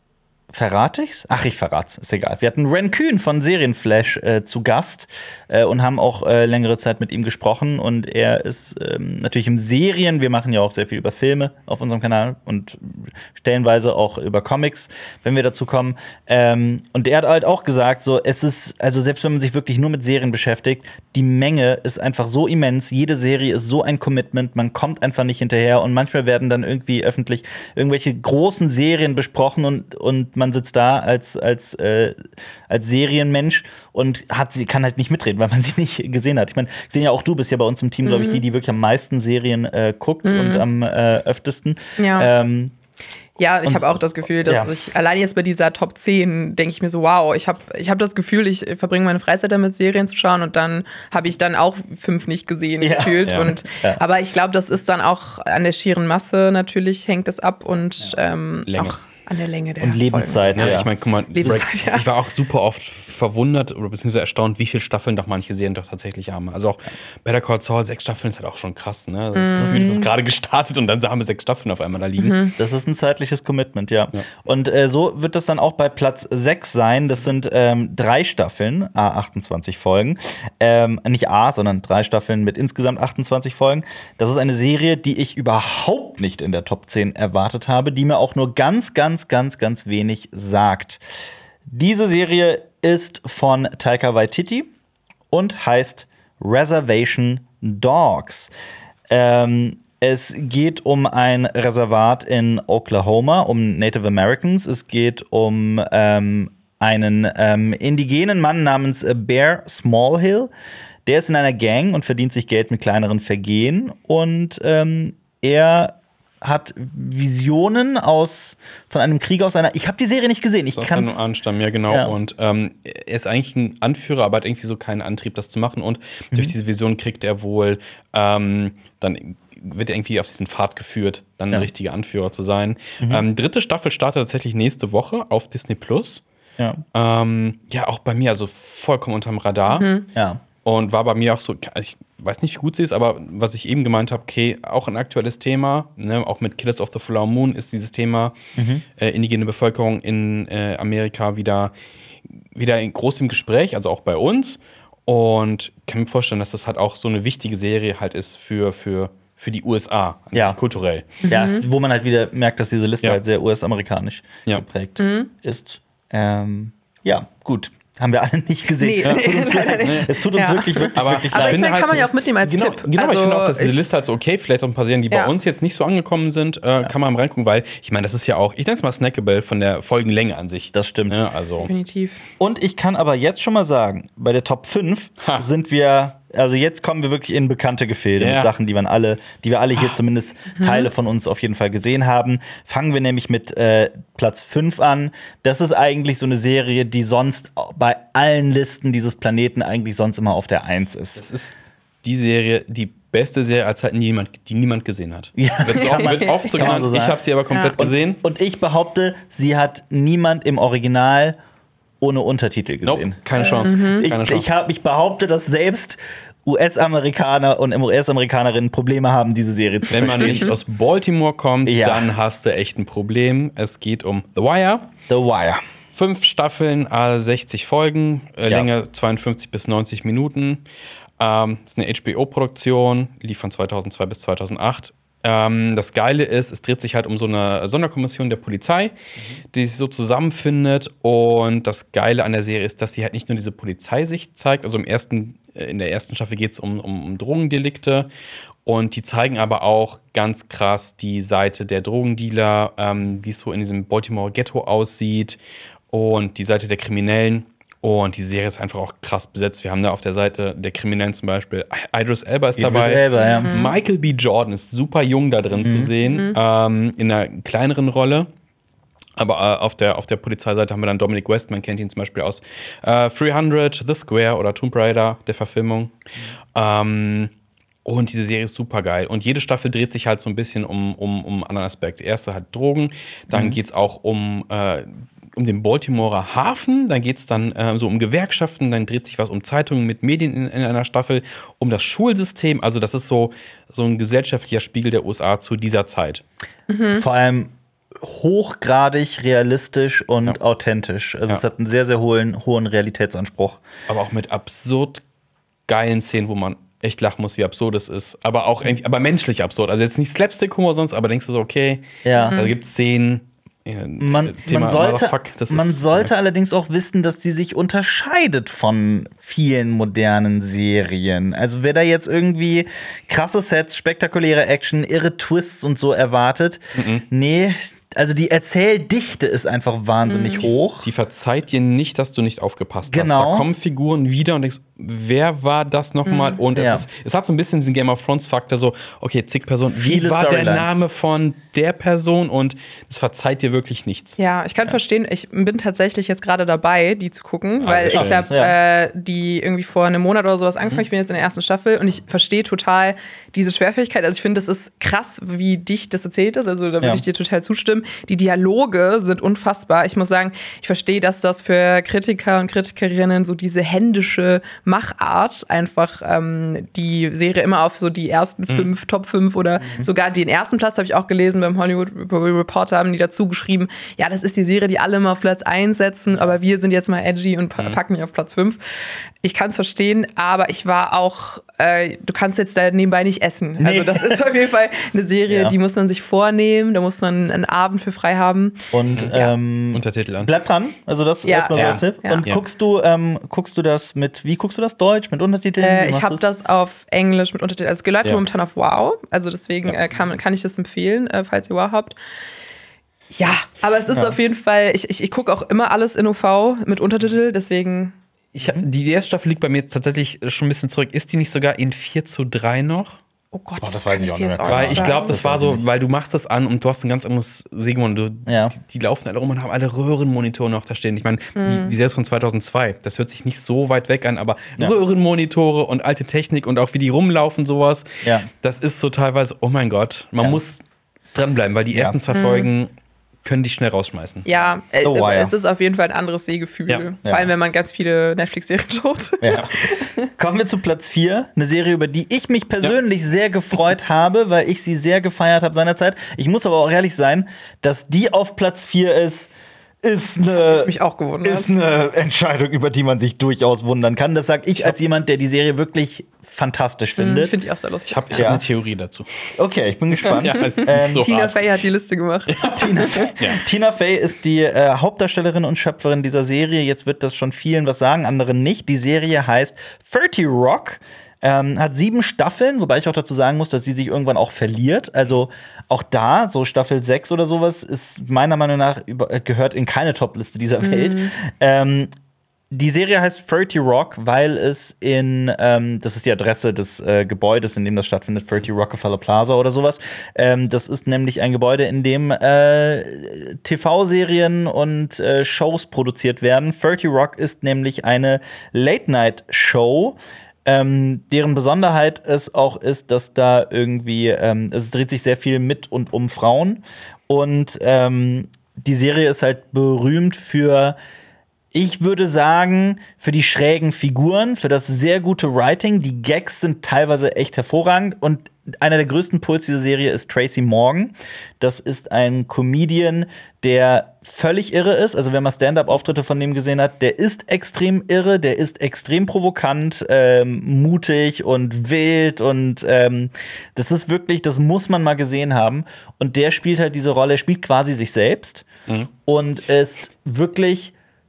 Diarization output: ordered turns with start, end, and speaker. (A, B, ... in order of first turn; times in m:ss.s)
0:00.5-0:32.2 A
0:32.7-0:42.7 A
0:38.0-0:38.4 B
0:40.2-0:40.6 B
0:42.0-0:42.3 B
0:43.4-1:00.8 B
0:43.6-0:43.9 A
0:44.4-0:44.7 A
0:52.8-0:54.0 A
0:58.7-0:59.0 C
0:59.8-1:00.9 A
1:00.6-1:12.4 C
1:01.4-1:02.0 B
1:09.3-1:09.8 B
1:09.6-1:10.1 A
1:12.2-1:12.5 B
1:12.6-1:31.0 A
1:31.7-1:34.7 A
1:35.3-1:38.5 A
1:39.1-1:50.5 A
1:51.0-2:01.2 A
2:00.7-2:16.2 C
2:01.9-2:02.1 A
2:13.0-2:13.2 A
2:16.9-2:19.9 C
2:19.7-2:20.0 B
2:20.1-2:20.4 A
2:20.6-2:28.4 C
2:28.6-2:28.8 A
2:29.0-2:31.7 C
2:32.5-2:41.2 C
2:41.2-2:41.6 B
2:41.3-2:52.8 A
2:45.0-2:45.3 B
2:48.8-2:53.8 B
2:51.0-2:52.1 C
2:52.9-3:01.7 C
3:00.7-3:01.2 A
3:01.6-3:02.2 B
3:02.4-3:21.2 A
3:05.2-3:05.4 C
3:08.2-3:08.5 C
3:10.5-3:10.9 B
3:21.2-3:28.2 C
3:25.4-3:27.2 A
3:25.8-3:26.5 B
3:27.5-3:27.8 B
3:27.8-3:31.4 A
3:32.0-3:40.5 A
3:32.8-3:34.5 C
3:33.6-3:34.1 B
3:39.9-3:44.9 C
3:41.6-3:42.1 A
3:45.1-3:45.6 A
3:45.9-3:50.6 C
3:51.2-3:58.9 C
3:59.5-4:08.1 C
4:08.6-4:15.4 C
4:15.9-4:28.3 C
4:22.6-4:23.5 A
4:23.4-4:23.7 B
4:25.6-4:25.9 A
4:26.0-4:26.4 B
4:29.2-4:36.0 C
4:36.5-4:37.3 C
4:37.8-4:56.2 C
4:43.3-4:43.6 A
4:56.7-4:57.0 B
4:56.9-5:03.6 A
5:03.9-5:05.0 C
5:05.7-5:16.1 C
5:12.0-5:12.4 A
5:12.2-5:12.5 B
5:14.0-5:30.9 A
5:26.8-5:27.0 C
5:30.0-5:30.4 B
5:30.4-5:44.2 C
5:32.9-5:33.5 A
5:36.0-5:36.4 B
5:36.5-5:36.8 A
5:39.7-5:40.8 A
5:44.2-6:18.6 B
5:47.6-5:48.3 C
5:47.7-5:48.6 A
6:09.6-6:09.9 A
6:19.2-6:29.3 B
6:23.6-6:24.2 A
6:25.3-6:25.6 A
6:28.7-6:36.2 A
6:29.7-6:30.3 C
6:31.2-6:32.2 B
6:31.6-6:32.4 C
6:35.6-6:42.0 B
6:43.1-6:47.9 B
6:43.9-6:44.2 A
6:48.3-6:53.0 C
6:53.3-6:55.1 B
6:53.6-6:55.6 A
6:54.5-7:07.8 C
6:58.2-6:58.5 A
7:01.4-7:01.7 B
7:08.0-7:08.3 A
7:08.4-7:10.6 C
7:11.1-7:12.7 C
7:12.1-7:12.5 B
7:13.2-7:14.2 C
7:14.2-7:20.1 B
7:14.8-7:15.3 A
7:17.0-7:17.3 A
7:19.2-7:19.5 A
7:20.2-7:29.3 A
7:29.8-7:37.3 A
7:30.4-7:31.5 B
7:37.0-7:38.3 B
7:37.9-7:39.3 C
7:38.1-7:38.4 A
7:39.4-7:41.1 A
7:40.0-7:41.5 C
7:40.4-7:43.1 B
7:42.3-7:43.4 C
7:42.6-8:01.9 A
8:00.6-8:01.1 B
8:02.5-8:30.8 A
8:31.5-8:58.5 A
8:59.0-9:00.7 A